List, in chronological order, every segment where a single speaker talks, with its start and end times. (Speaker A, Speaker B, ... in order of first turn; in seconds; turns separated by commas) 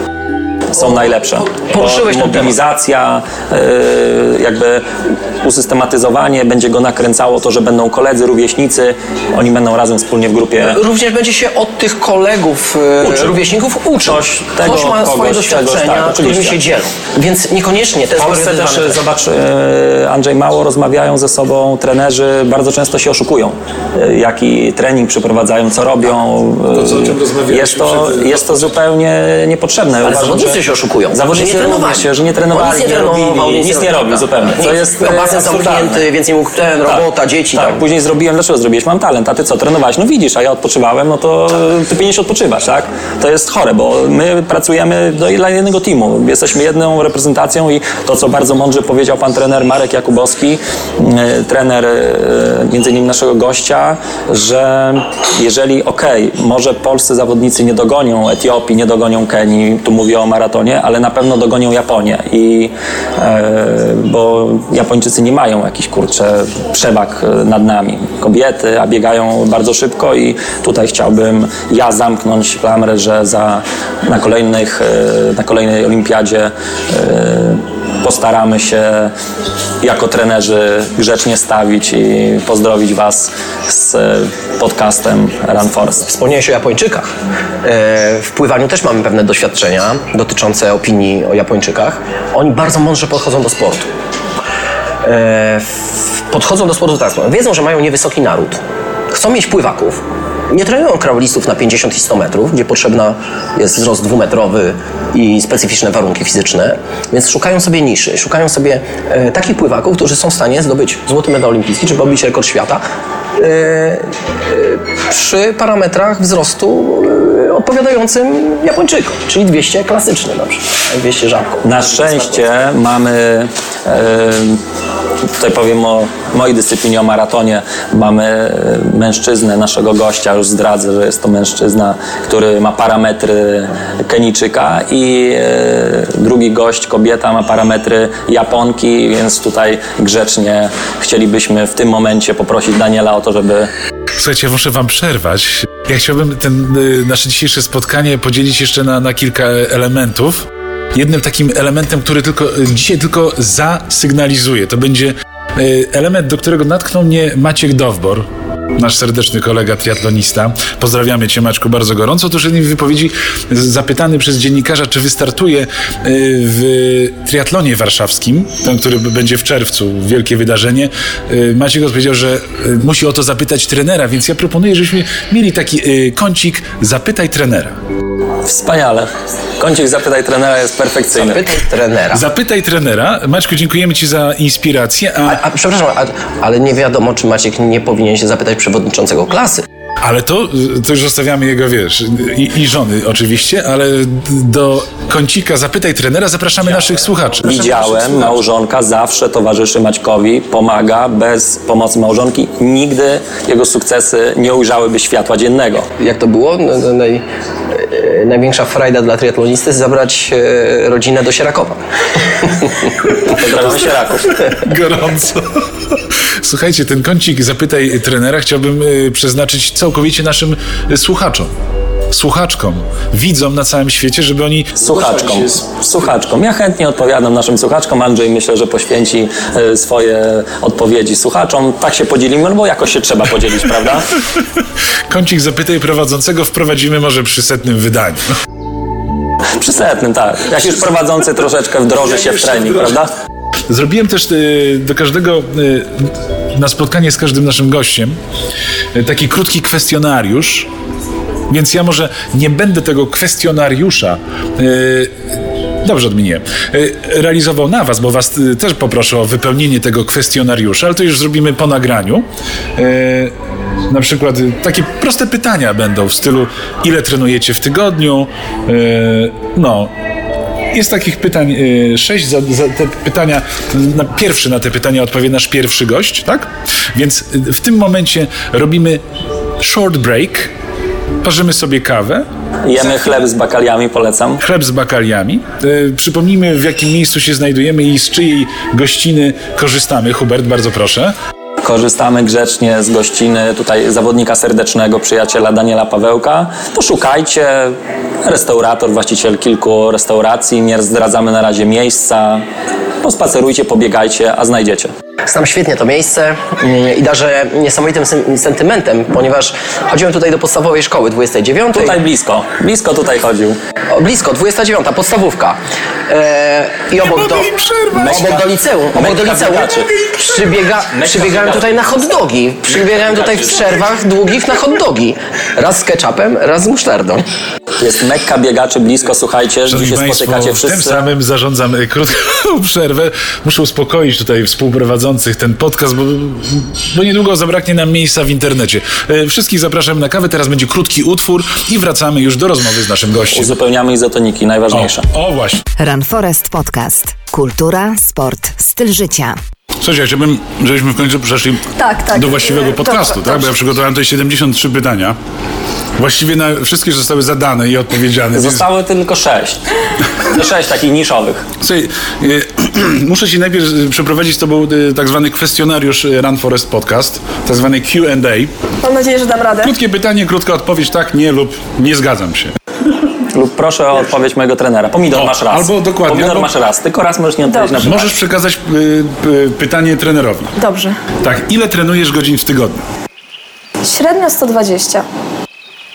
Speaker A: 0.7-10.8, Speaker B: 0.8-2.6, Speaker B: 10.6-19.0, Speaker A: 13.0-13.4, Speaker A: 14.0-16.6, Speaker A: 18.1-30.6, Speaker C: 26.7-28.7, Speaker B: 30.0-37.8, Speaker A: 31.1-36.0, Speaker A: 36.8-79.1, Speaker A: 79.8-86.1, Speaker B: 86.1-87.1, Speaker B: 87.6-93.9, Speaker B: 95.0-98.6, Speaker B: 99.1-112.8, Speaker B: 113.4-122.5, Speaker A: 121.6-124.6, Speaker A: 125.4-143.7, Speaker C: 144.2-177.7, Speaker A: 178.4-181.5, Speaker B: 181.2-182.2, Speaker C: 182.1-185.4, Speaker B: 185.3-189.6, Speaker C: 190.0-198.3, Speaker A: 197.4-205.9, Speaker B: 206.0-213.2, Speaker A: 213.2-214.4, Speaker C: 214.5-221.5, Speaker C: 222.1-225.6, Speaker A: 224.8-234.1, Speaker C: 235.1-238.4, Speaker A: 239.6-243.1, Speaker C: 243.7-248.2, Speaker C: 248.9-250.7, Speaker C: 251.5-262.2, Speaker C: 262.8-263.3, Speaker C: 263.9-269.9, Speaker C: 270.7-279.0, Speaker C: 279.6-280.5, Speaker C: 281.2-282.2, Speaker A: 282.6-284.4, Speaker C: 284.4-291.1, Speaker A: 291.6-302.4, Speaker A: 303.0-304.9, Speaker B: 305.3-312.0, Speaker A: 311.7-313.6, Speaker B: 313.9-315.6, Speaker B: 316.1-327.2, Speaker C: 317.0-318.3, Speaker A: 317.9-319.9, Speaker A: 320.9-322.1, Speaker A: 322.8-323.8, Speaker A: 327.8-331.0, Speaker C: 329.7-343.6, Speaker A: 343.3-345.1, Speaker C: 344.7-345.6, Speaker D: 345.8-349.4, Speaker C: 349.8-355.2, Speaker E: 351.8-353.5, Speaker C: 356.0-358.7, Speaker A: 358.4-361.5, Speaker C: 361.6-368.5, Speaker E: 368.8-369.7, Speaker C: 369.6-372.5, Speaker A: 373.3-378.2, Speaker C: 375.1-376.5, Speaker E: 377.4-377.9, Speaker C: 377.8-380.6, Speaker E: 380.6-380.9, Speaker C: 381.2-382.8, Speaker E: 383.8-385.1